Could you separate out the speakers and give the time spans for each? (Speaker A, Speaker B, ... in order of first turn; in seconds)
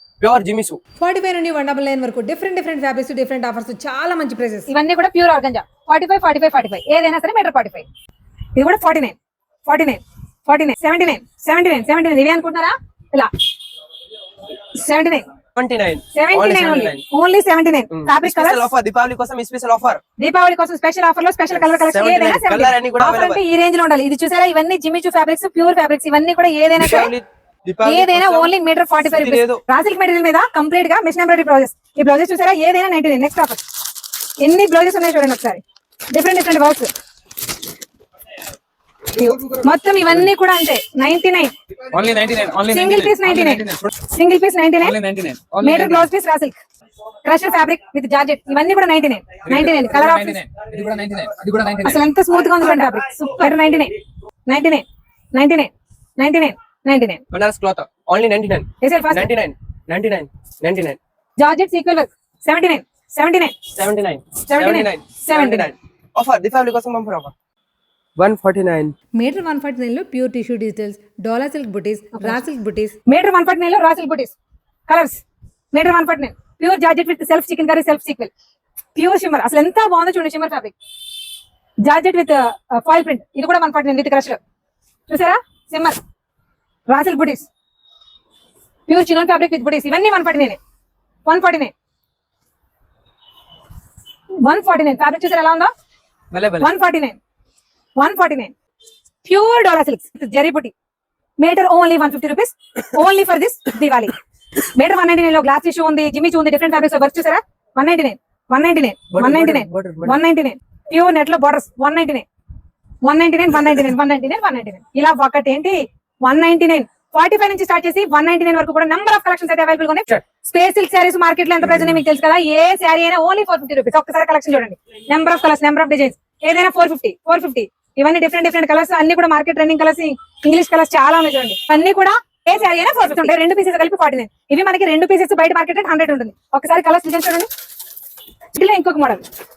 Speaker A: 0.2-0.8, 15.5-17.0, 17.9-20.0, 21.5-23.4, 26.8-28.5, 29.0-29.6, 57.3-61.0, 63.7-67.3, 68.2-68.9, 96.3-96.7, 109.1-110.2
Speaker B: 1.0-4.7, 69.1-73.0
Speaker C: 4.7-7.8, 8.5-13.3, 14.6-15.3, 16.1-18.7, 20.2-27.1, 27.8-33.6, 34.4-36.9, 39.1-41.5, 42.7-45.0, 45.6-46.6, 47.2-50.4, 51.8-57.2, 58.8-59.3, 61.4-63.6, 64.4-65.7, 72.2-72.4, 73.0-74.3, 74.9-75.2, 75.7-78.3, 78.9-80.7, 81.8-84.4, 85.1-86.0, 86.9-87.5, 88.9-90.6, 91.2-91.7, 94.4-95.7, 96.6-97.2, 98.0-98.5, 99.2-100.7, 101.4-112.2, 113.0-137.5, 138.5-139.2
Speaker D: 41.9-43.9, 44.8-46.1, 49.5-52.0